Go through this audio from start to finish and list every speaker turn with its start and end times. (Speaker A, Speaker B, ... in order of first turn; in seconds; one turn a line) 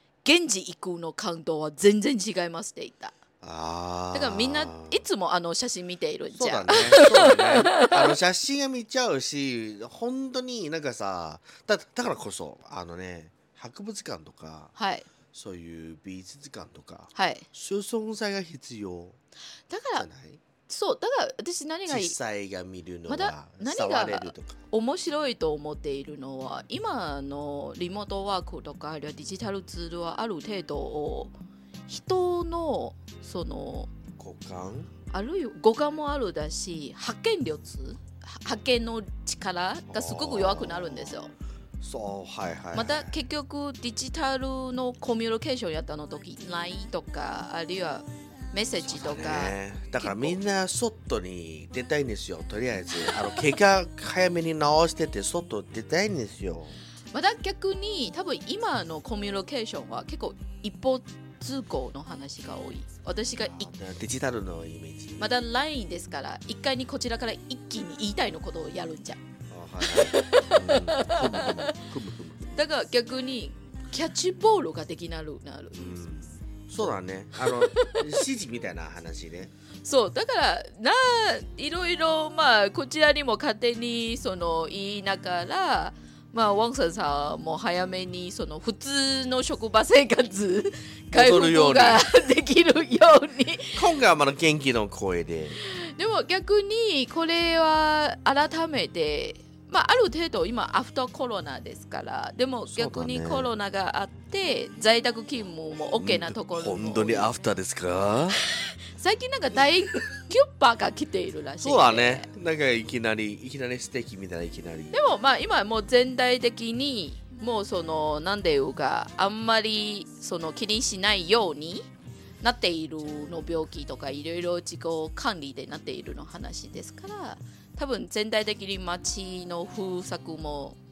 Speaker A: 0.2-3.2
Speaker B: 3.4-5.0
Speaker A: 4.1-8.1
Speaker B: 6.3-14.7
Speaker A: 14.8-15.1
Speaker B: 15.3-19.2
Speaker A: 17.1-17.4
Speaker A: 19.7-20.1
Speaker B: 19.9-20.4
Speaker A: 20.7-22.1
Speaker B: 21.9-24.6
Speaker A: 23.1-31.3
Speaker A: 31.9-33.9
Speaker B: 34.2-34.9
Speaker A: 35.1-41.3
Speaker B: 39.9-41.2
Speaker B: 41.8-43.1
Speaker A: 42.7-50.4
Speaker B: 48.8-56.8
Speaker A: 57.1-63.7
Speaker B: 63.4-65.3
Speaker A: 65.2-69.2
Speaker B: 69.5-72.6
Speaker A: 69.8-71.8
Speaker A: 72.5-76.0
Speaker B: 75.7-79.5
Speaker A: 77.4-78.1
Speaker A: 79.8-93.8
Speaker B: 91.1-92.0
Speaker B: 93.7-95.6
Speaker A: 95.6-107.3
Speaker B: 102.7-103.5
Speaker B: 106.0-108.4
Speaker A: 108.5-112.3
Speaker B: 111.6-115.0
Speaker A: 114.9-121.9
Speaker A: 122.4-130.8